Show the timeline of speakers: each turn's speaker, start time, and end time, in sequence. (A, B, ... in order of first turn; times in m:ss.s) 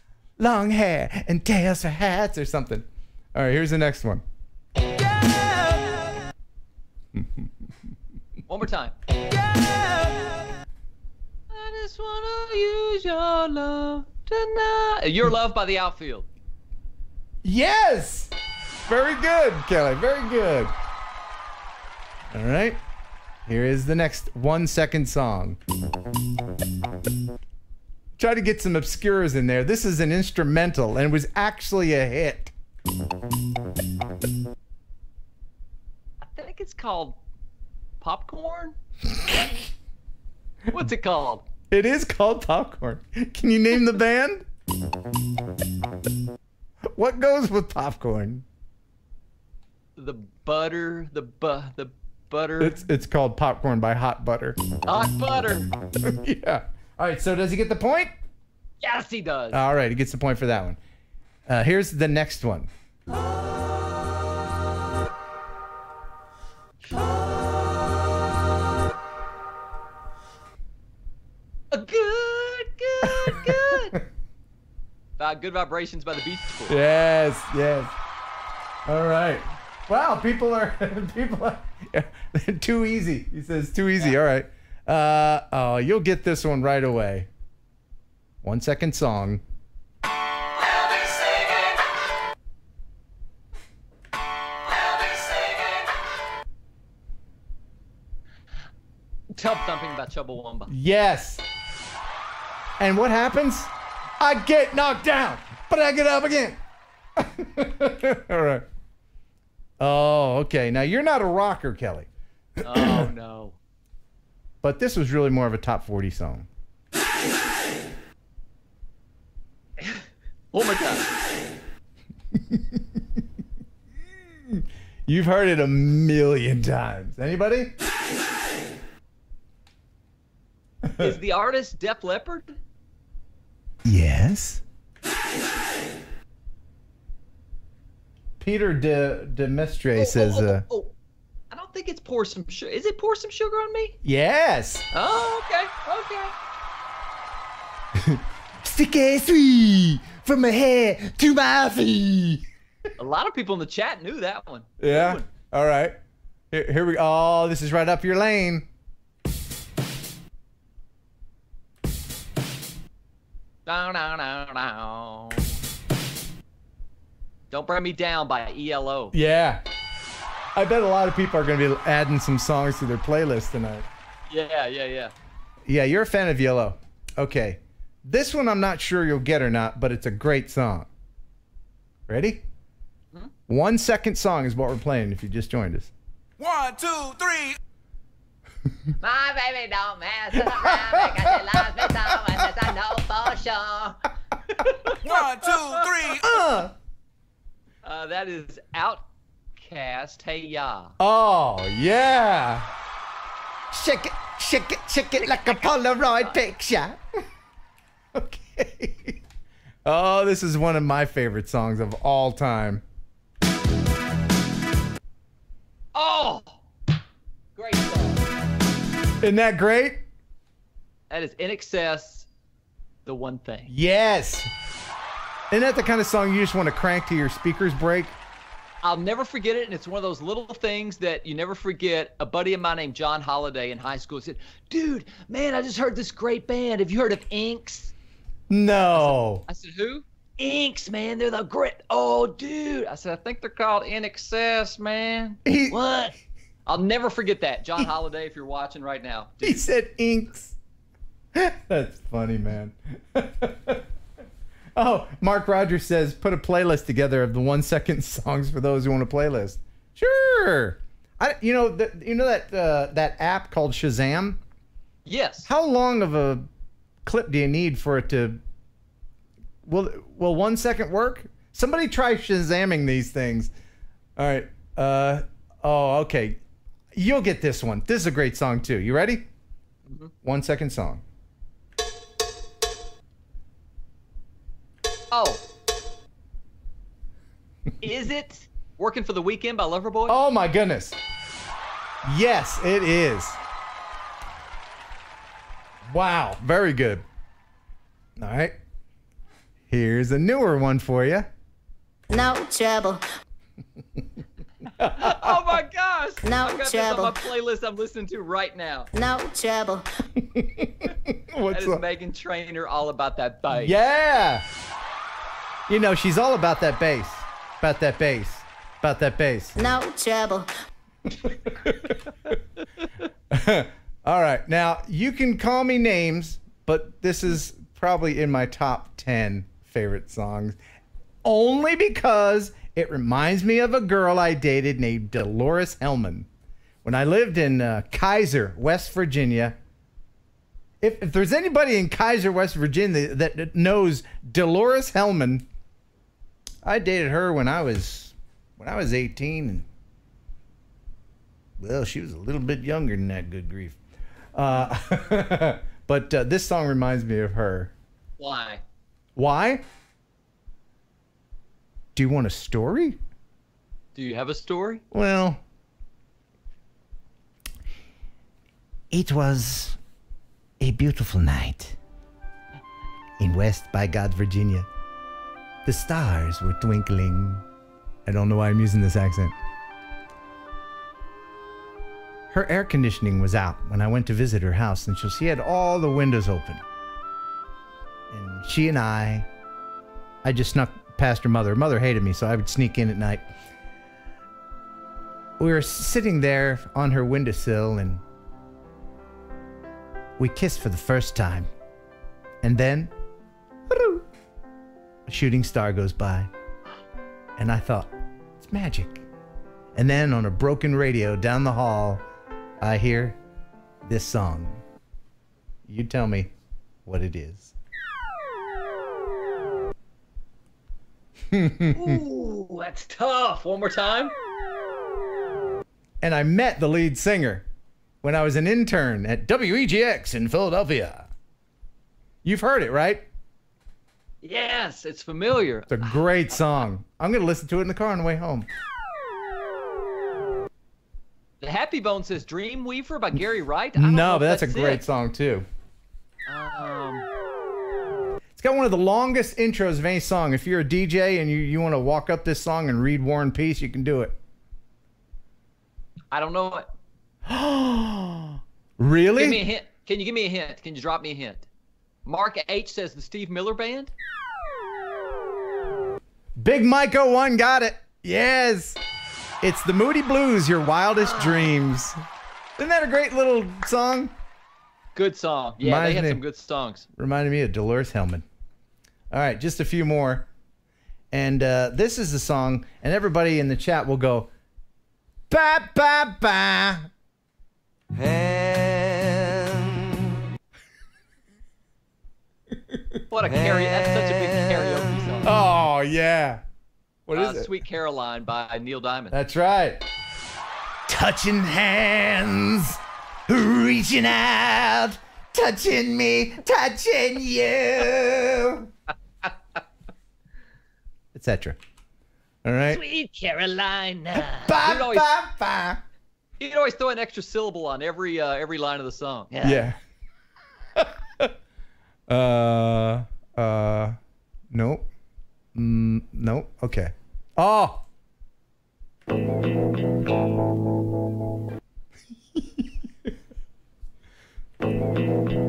0:00.4-0:04.2 A
0:05.1-0:06.1 B
0:07.1-0:07.5 A
0:08.5-0:10.5 B
0:11.5-0:16.3 B
0:17.4-0:20.7 A
0:22.3-0:22.8 A
0:23.5-0:25.6 A
0:28.2-0:32.5 A
0:36.2-0:37.2 B
0:38.0-0:38.8 B
0:40.7-0:41.4 B
0:41.7-0:44.5 A
0:46.9-0:48.4 A
0:50.0-0:52.8 B
0:52.6-0:54.6 A
0:54.8-0:55.7 B
0:56.0-0:58.1 A
0:58.8-0:59.6 B
0:59.5-1:00.8 A
1:01.5-1:02.7 A
1:11.7-1:14.0 B
1:13.0-1:14.0 A
1:15.2-1:16.8 B
1:16.7-1:17.9 A
1:18.9-1:27.3 A
1:28.4-1:29.4 A
1:30.7-1:31.8 B
1:34.8-1:35.8 B
1:39.3-1:40.7 B
1:40.7-1:41.4 A
1:42.8-1:46.6 A
1:47.2-1:48.7 A
1:49.8-1:52.1 A
1:52.6-1:53.6 B
1:52.7-1:53.1 A
1:54.6-1:56.5 A
1:59.8-2:01.1 B
2:02.4-2:02.8 A
2:04.5-2:07.7 A
2:11.0-2:12.6 B
2:13.8-2:14.6 A
2:18.4-2:20.6 A
2:20.0-2:20.9 B
2:21.5-2:24.0 B
2:24.0-2:24.9 A
2:24.9-2:26.3 B
2:28.0-2:32.4 A
2:33.0-2:35.3 B
2:34.8-2:36.0 A
2:36.5-2:38.7 A
2:43.7-2:45.6 B
2:47.5-2:49.1 B
2:49.1-2:49.6 A
2:50.6-2:53.9 A
2:54.3-2:55.1 B
2:55.7-3:00.9 A
3:02.1-3:02.4 A
3:03.5-3:05.9 A
3:06.4-3:07.6 C
3:09.0-3:15.7 B
3:10.6-3:11.3 A
3:15.0-3:16.2 C
3:16.2-3:16.7 A
3:17.8-3:19.0 B
3:19.6-3:20.9 B
3:21.0-3:22.7 A
3:23.7-3:27.0 A
3:25.2-3:25.7 B
3:28.1-3:29.2 A
3:29.8-3:32.8 A
3:36.0-3:36.6 B
3:37.6-3:38.2 B
3:39.2-3:40.0 A
3:41.1-3:42.3 B
3:43.1-3:43.7 B
3:43.7-3:44.5 A
3:45.5-3:48.2 A
3:48.8-3:57.9 B
3:58.5-3:59.4 A
3:58.9-4:06.2 B
4:05.4-4:05.8 A
4:06.7-4:09.6 B
4:09.4-4:10.6 A
4:11.4-4:13.8 A
4:14.8-4:24.4 A
4:25.1-4:25.5 B
4:25.5-4:26.5 A
4:27.0-4:28.4 A
4:29.6-4:33.5 A
4:34.2-4:36.4 A
4:36.9-4:39.3 A
4:39.9-4:40.1 B
4:40.2-4:41.0 A
4:45.1-4:45.4 B
4:47.8-4:50.2 B
4:50.1-4:51.0 A
4:52.0-4:53.4 A
4:55.9-4:57.0 A
4:58.2-4:58.6 A
4:59.7-5:01.3 A
5:02.1-5:03.0 D
5:04.8-5:05.4 A
5:05.0-5:08.9 B
5:06.2-5:07.2 D
5:08.9-5:09.8 D
5:10.3-5:11.8 A
5:11.5-5:13.9 B
5:13.6-5:14.4 A
5:15.7-5:19.6 A
5:19.6-5:20.5 D
5:23.3-5:30.6 A
5:31.2-5:36.3 A
5:36.8-5:39.6 A
5:40.8-5:45.5 A
5:46.6-5:49.7 A
5:51.6-5:53.8 A
5:54.4-5:57.7 A
5:58.2-5:58.6 B
5:59.2-5:59.6 A
6:02.0-6:03.0 A
6:04.0-6:04.8 B
6:04.9-6:05.4 A
6:08.9-6:09.8 A
6:10.6-6:11.8 A
6:13.2-6:14.7 A
6:15.6-6:17.4 A
6:18.1-6:19.4 A
6:22.3-6:26.6 A
6:28.1-6:29.3 A
6:30.2-6:33.3 A
6:35.4-6:38.0 A
6:40.2-6:41.5 A
6:42.4-6:42.9 A
6:43.7-6:44.0 A
6:45.1-6:46.3 A
6:47.4-6:49.1 A
6:49.8-6:52.0 A
6:52.6-6:53.2 A
6:53.8-6:54.6 A
6:55.7-6:56.3 A
6:56.9-6:57.5 A
7:01.3-7:02.0 A
7:01.7-7:04.2 B
7:06.0-7:07.4 A
7:08.0-7:11.1 A
7:12.2-7:13.1 A
7:14.2-7:16.6 B
7:15.7-7:18.5 A
7:21.4-7:24.8 B
7:23.8-7:25.5 A
7:26.3-7:27.1 B
7:28.4-7:34.2 A
7:36.1-7:36.7 B
7:37.3-7:39.4 A
7:39.2-7:41.5 B
7:42.0-7:43.9 B
7:46.4-7:48.8 A
7:49.4-7:52.0 A
7:51.0-7:51.5 B
7:52.6-7:54.1 A
7:55.0-7:56.9 B
7:55.6-7:56.2 A
7:57.0-7:58.2 A
7:59.1-8:00.3 A
8:01.1-8:04.3 A
8:05.3-8:06.9 A
8:08.0-8:09.6 A
8:12.7-8:14.6 A
8:13.1-8:15.4 B
8:15.2-8:16.4 A
8:17.1-8:17.5 A
8:17.1-8:19.2 B
8:19.1-8:19.8 A
8:20.9-8:28.7 A
8:31.1-8:31.6 A
8:32.4-8:32.8 A
8:32.7-8:35.1 B
8:34.1-8:35.8 A
8:36.4-8:39.7 B
8:39.4-8:39.8 A
8:40.8-8:41.3 A
8:42.1-8:44.0 A
8:44.5-8:44.9 A
8:45.6-8:47.8 A